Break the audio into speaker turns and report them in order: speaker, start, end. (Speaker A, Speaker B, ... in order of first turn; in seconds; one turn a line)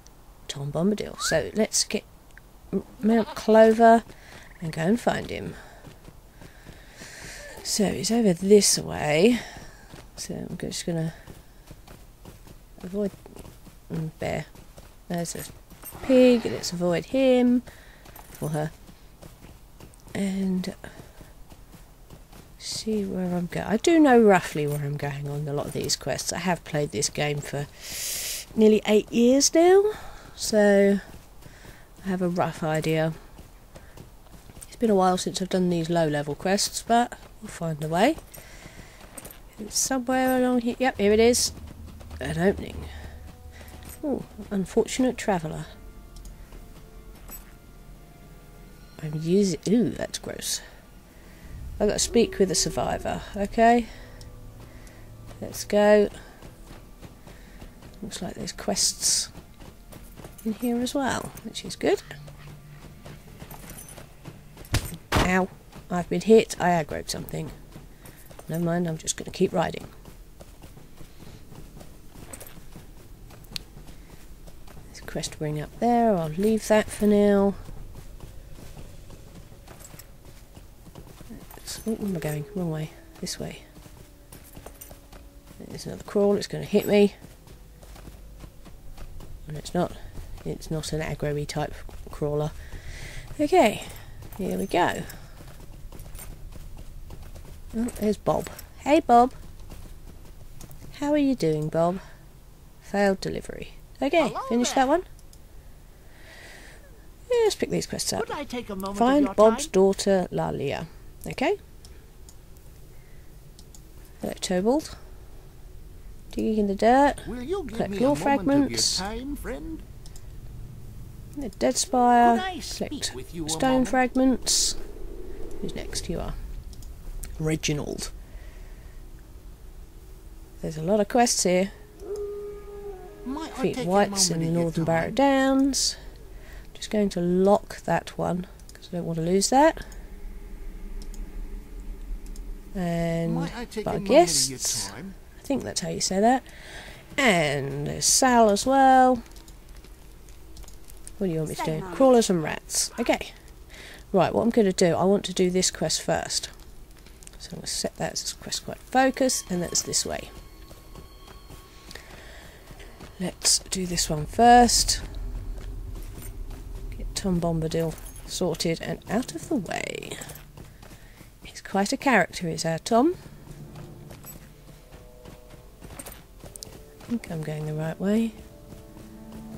Speaker A: 0.5-2.1
Speaker A: 2.7-4.0
Speaker A: 4.6-5.6
Speaker A: 7.6-9.6
Speaker A: 10.2-11.2
Speaker A: 12.8-13.3
Speaker A: 13.9-14.5
Speaker A: 15.1-15.5
Speaker A: 16.0-17.6
Speaker A: 18.4-18.7
Speaker A: 20.1-20.8
Speaker A: 22.6-31.0
Speaker A: 32.0-33.1
Speaker A: 34.7-38.2
Speaker A: 39.6-41.5
Speaker A: 42.2-42.9
Speaker A: 44.0-45.7
Speaker A: 49.0-50.6
Speaker A: 51.8-53.9
Speaker A: 55.4-56.1
Speaker A: 58.0-59.3
Speaker A: 60.4-62.0
Speaker A: 65.2-67.5
Speaker A: 68.5-69.9
Speaker A: 74.9-77.6
Speaker A: 81.3-83.6
Speaker A: 85.6-87.2
Speaker A: 89.5-92.5
Speaker A: 93.4-95.1
Speaker A: 97.7-99.4
Speaker A: 100.9-102.0
Speaker A: 102.8-105.1
Speaker B: 104.2-104.9
Speaker A: 107.3-108.4
Speaker B: 108.2-109.7
Speaker A: 108.9-111.6
Speaker A: 114.2-114.9
Speaker A: 116.3-119.0
Speaker B: 117.3-119.8
Speaker A: 121.4-124.8
Speaker B: 122.2-124.0
Speaker A: 125.6-126.3
Speaker A: 127.4-128.1
Speaker A: 130.6-131.7
Speaker B: 133.2-135.2
Speaker A: 133.6-136.0
Speaker A: 136.7-139.8
Speaker A: 142.8-146.5
Speaker B: 143.2-145.2
Speaker A: 147.2-149.2
Speaker A: 151.2-153.3
Speaker B: 151.6-152.1
Speaker A: 154.1-156.5
Speaker A: 157.4-160.3
Speaker A: 163.2-165.0
Speaker A: 167.0-170.2
Speaker A: 171.4-173.2
Speaker A: 177.1-178.3